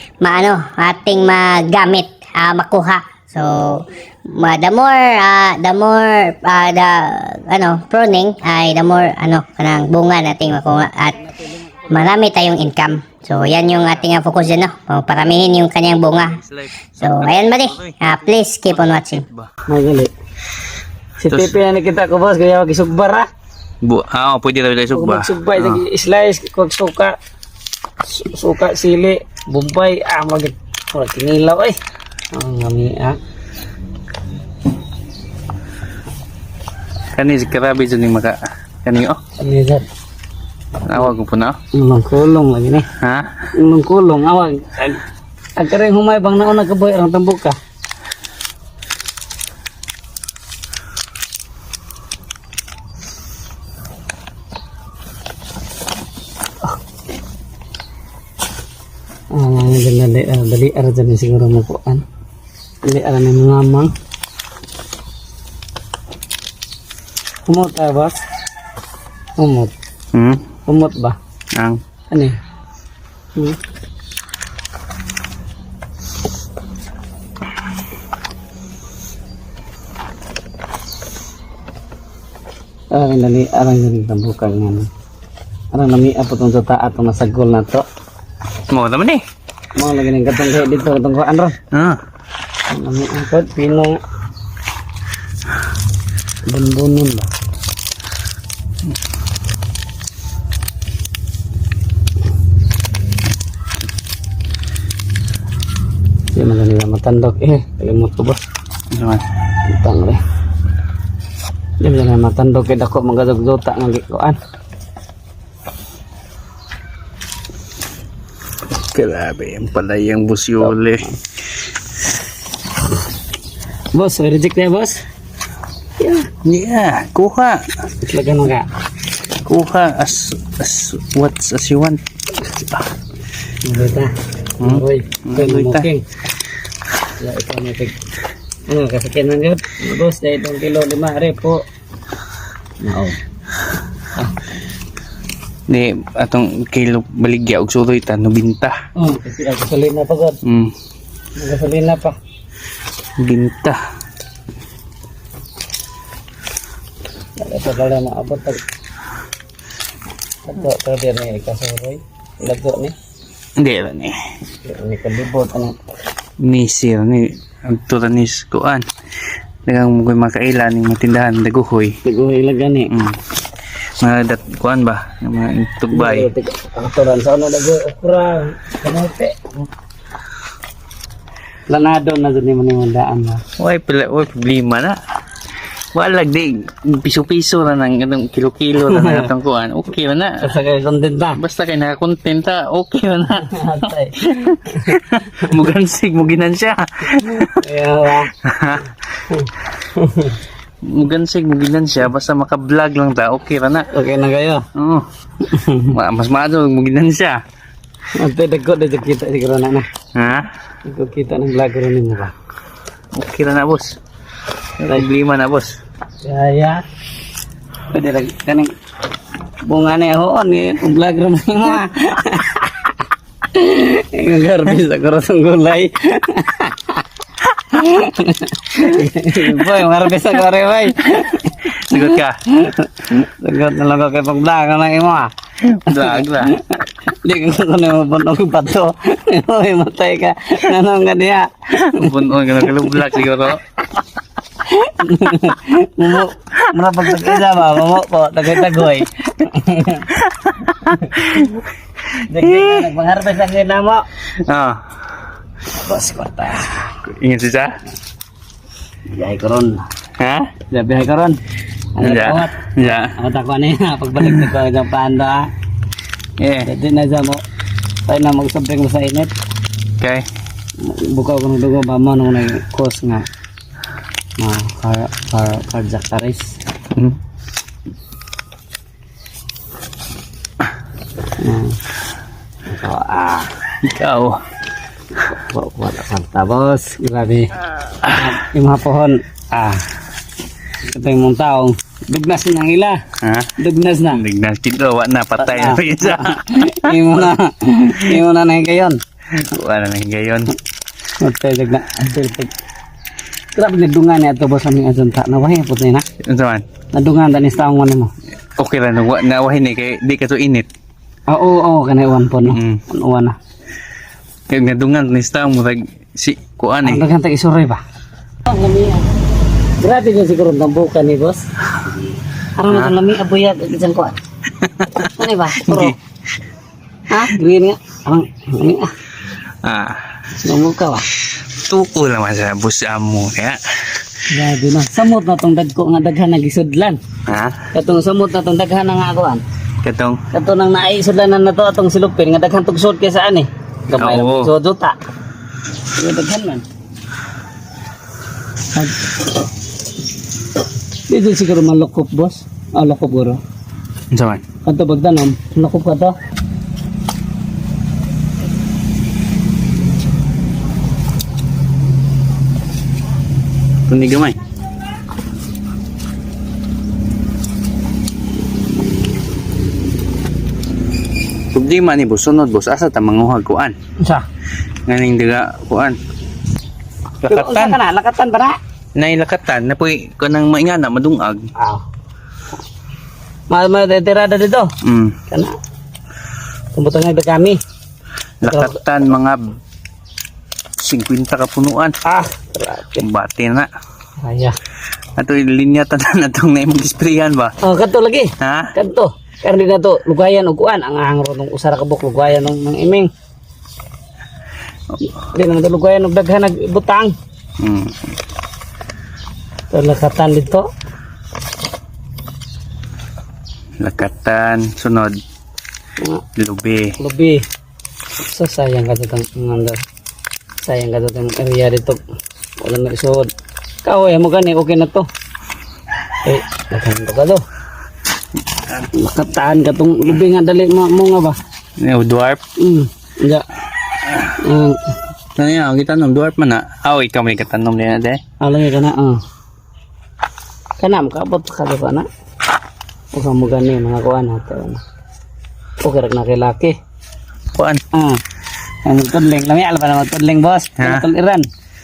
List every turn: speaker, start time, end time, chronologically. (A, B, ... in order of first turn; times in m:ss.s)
0:00.2-0:11.2 A
0:11.9-0:16.4 A
0:16.2-0:18.1 B
0:17.0-0:19.2 A
0:18.7-0:19.5 B
0:19.7-0:20.1 C
0:21.2-0:23.3 C
0:21.3-0:21.6 B
0:23.8-0:25.8 B
0:24.9-0:27.2 C
0:28.0-0:31.8 C
0:32.3-0:33.2 C
0:37.2-0:39.2 B
0:39.4-0:39.9 C
0:40.9-0:41.6 B
0:41.7-0:42.9 C
0:43.0-0:43.4 B
0:43.6-0:45.0 C
0:45.6-0:47.6 C
0:59.3-1:02.0 C
1:02.8-1:03.9 C
1:07.5-1:08.2 C
1:09.4-1:09.7 C
1:10.1-1:10.5 B
1:10.7-1:11.2 C
1:11.6-1:11.8 B
1:12.1-1:12.4 C
1:22.9-1:24.9 C
1:25.7-1:27.9 C
1:28.7-1:29.2 B
1:29.8-1:31.6 C
1:31.7-1:32.0 B
1:32.7-1:34.0 C
1:36.5-1:37.3 C
1:46.3-1:48.4 C
1:48.9-1:49.2 B
1:49.7-1:50.2 C
1:51.8-1:54.4 C
1:58.9-2:01.1 B
2:03.9-2:05.0 C
2:06.0-2:06.3 C
2:06.4-2:07.7 B
2:08.0-2:08.7 C
2:09.4-2:12.0 B
2:13.6-2:16.0 C
2:14.6-2:15.9 B
2:17.2-2:18.0 C
2:18.7-2:21.6 C
2:22.8-2:23.2 C
2:25.7-2:28.8 B
2:29.0-2:30.4 C
2:30.4-2:30.7 B
2:31.4-2:32.2 C
2:33.2-2:33.8 B
2:37.4-2:38.6 C
2:40.5-2:43.0 C
2:43.6-2:44.2 B
2:44.6-2:45.8 C
2:46.4-2:48.9 B
2:49.7-2:52.0 B
2:52.1-2:52.9 C
2:52.9-2:53.2 B
2:54.0-2:56.3 B
2:55.9-2:59.4 C
3:01.7-3:03.4 C
3:03.6-3:05.0 B
3:05.9-3:10.5 B
3:08.9-3:09.3 C
3:10.4-3:11.4 C
3:11.4-3:13.6 B
3:13.5-3:14.9 C
3:14.2-3:17.6 B
3:17.6-3:18.3 C
3:18.4-3:18.9 B
3:19.3-3:20.4 C
3:20.9-3:23.9 B
3:23.9-3:24.6 C
3:24.8-3:25.1 B
3:25.4-3:25.9 C
3:25.9-3:27.4 B
3:28.2-3:29.8 C
3:30.2-3:30.5 B
3:30.8-3:32.3 C
3:33.1-3:34.0 B
3:34.8-3:35.8 B
3:36.2-3:36.8 C
3:37.9-3:38.7 C
3:39.6-3:43.0 C
3:43.5-3:47.0 C
3:47.7-3:55.3 C
3:49.4-3:49.8 B
3:51.8-3:52.4 B
3:55.6-3:56.6 B
3:55.9-4:02.1 C
4:01.7-4:03.6 B
4:02.6-4:03.2 C
4:04.7-4:10.1 C
4:10.2-4:11.5 B
4:11.0-4:11.5 C
4:12.3-4:14.1 C
4:12.4-4:12.9 B
4:14.5-4:14.8 B
4:15.7-4:16.9 C
4:17.1-4:17.7 B
4:19.1-4:19.9 C
4:20.2-4:20.5 B
4:20.7-4:21.4 C
4:22.0-4:25.5 C
4:22.0-4:23.2 B
4:24.2-4:24.5 B
4:26.4-4:26.7 B
4:26.6-4:27.4 C
4:28.1-4:29.3 C
4:30.0-4:30.3 B
4:30.8-4:33.3 C
4:34.4-4:36.5 C
4:41.4-4:41.8 C
4:42.7-4:43.5 C
4:43.8-4:44.4 B
4:45.2-4:47.5 C
4:48.1-4:49.9 C
4:50.9-4:53.0 C
4:53.2-4:53.5 B
4:53.6-4:54.2 C
4:54.1-4:56.8 B
4:55.4-4:59.0 C
4:59.4-5:00.6 B
5:01.2-5:02.5 C
5:03.6-5:06.1 C
5:06.2-5:06.6 B
5:06.9-5:08.1 C
5:08.6-5:10.7 B
5:11.3-5:13.4 C
5:12.4-5:12.8 B
5:14.5-5:17.0 B
5:16.8-5:17.8 C
5:18.5-5:19.1 C
5:19.8-5:21.4 C
5:22.6-5:24.2 C
5:22.7-5:23.0 B
5:24.6-5:25.1 B
5:25.0-5:26.0 C
5:25.6-5:26.0 B
5:27.1-5:28.9 C
5:29.6-5:30.0 B
5:30.4-5:31.1 C
5:31.4-5:34.0 B
5:34.3-5:37.0 C
5:37.3-5:37.6 B
5:37.7-5:39.4 C
5:39.8-5:40.2 B
5:40.3-5:45.0 C
5:43.9-5:44.5 B
5:46.0-5:46.6 C
5:51.1-5:53.4 C
5:54.1-5:54.4 B
5:54.6-5:56.2 C
6:03.9-6:04.4 B
6:11.5-6:13.8 B
6:14.9-6:16.0 B
6:17.2-6:17.8 B
6:17.3-6:18.6 C
6:19.0-6:21.4 B
6:21.6-6:21.8 C
6:23.5-6:24.7 C
6:24.8-6:25.2 B
6:25.3-6:25.6 C
6:26.7-6:27.6 C
6:28.4-6:28.8 C
6:28.4-6:29.6 B
6:30.8-6:32.0 B
6:32.1-6:33.1 C
6:33.0-6:33.7 B
6:34.2-6:34.6 C
6:35.2-6:37.6 B
6:37.6-6:43.1 C
6:38.4-6:38.7 B
6:45.2-6:47.2 C
6:47.6-6:48.0 B
6:49.7-6:50.7 C
6:53.8-6:55.2 B
6:56.4-6:56.9 B
6:57.0-6:57.4 C
6:58.2-6:59.8 C
7:00.6-7:02.0 C
7:02.6-7:03.3 C
7:03.8-7:05.1 C
7:06.2-7:07.4 C
7:09.0-7:11.4 C
7:11.8-7:12.4 B
7:12.6-7:13.4 C
7:14.4-7:14.8 C
7:15.4-7:18.2 B
7:18.4-7:19.2 C
7:20.8-7:22.1 C
7:23.1-7:24.8 C
7:25.8-7:26.8 C
7:27.5-7:27.8 B
7:27.9-7:28.2 C
7:28.8-7:31.5 C
7:30.8-7:31.1 B